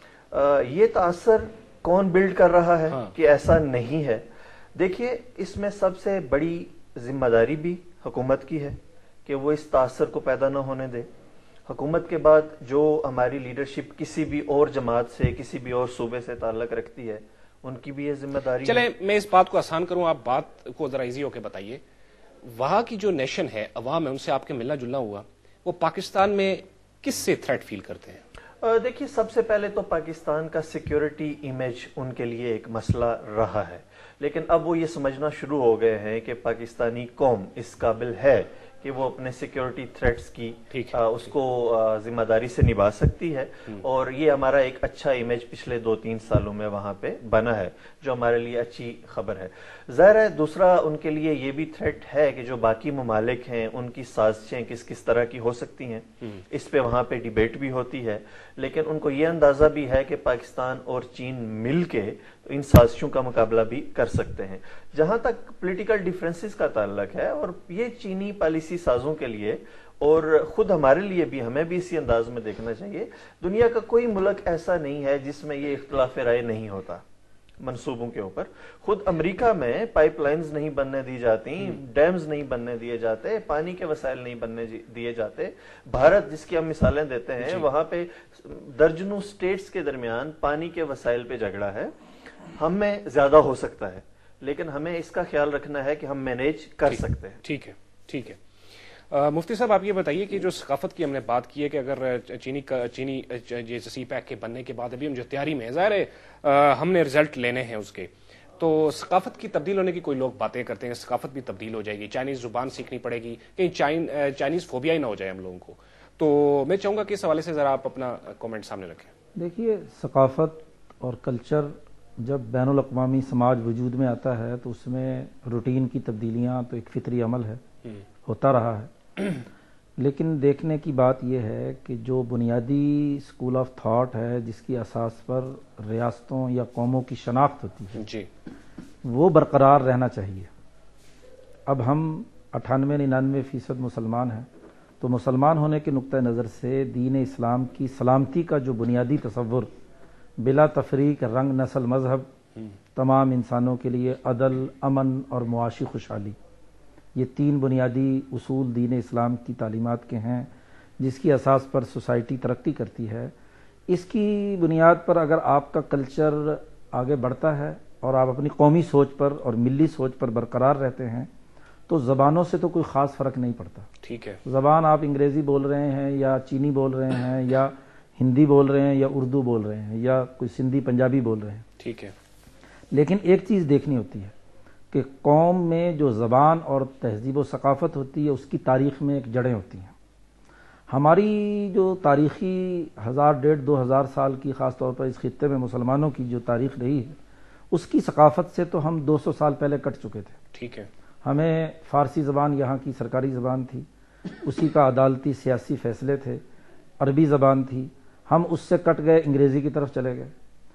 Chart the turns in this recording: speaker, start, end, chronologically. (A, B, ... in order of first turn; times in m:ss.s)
0:00.3-0:11.1 A
0:11.7-0:18.9 A
0:18.6-0:21.8 B
0:22.4-0:28.2 B
0:28.6-1:17.0 A
0:40.7-0:41.0 B
1:17.6-1:31.9 A
1:27.4-1:27.7 B
1:32.5-1:37.4 A
1:36.9-1:38.4 B
1:39.1-1:59.1 B
1:59.4-2:07.6 C
2:08.2-2:08.9 C
2:10.0-2:18.0 C
2:18.0-2:18.3 B
2:19.0-2:20.5 C
2:21.7-2:24.5 C
2:25.0-2:29.7 C
2:30.4-2:32.3 C
2:32.9-2:36.4 C
2:37.1-2:43.3 C
2:43.9-2:51.3 C
2:51.9-2:53.9 C
2:54.0-2:54.4 B
2:54.4-3:01.6 C
3:01.8-3:02.1 B
3:02.9-3:04.3 C
3:04.9-3:09.9 C
3:10.9-3:17.2 C
3:17.7-3:20.4 C
3:20.5-3:20.9 B
3:21.2-3:23.9 C
3:24.4-3:26.4 C
3:27.0-3:30.3 C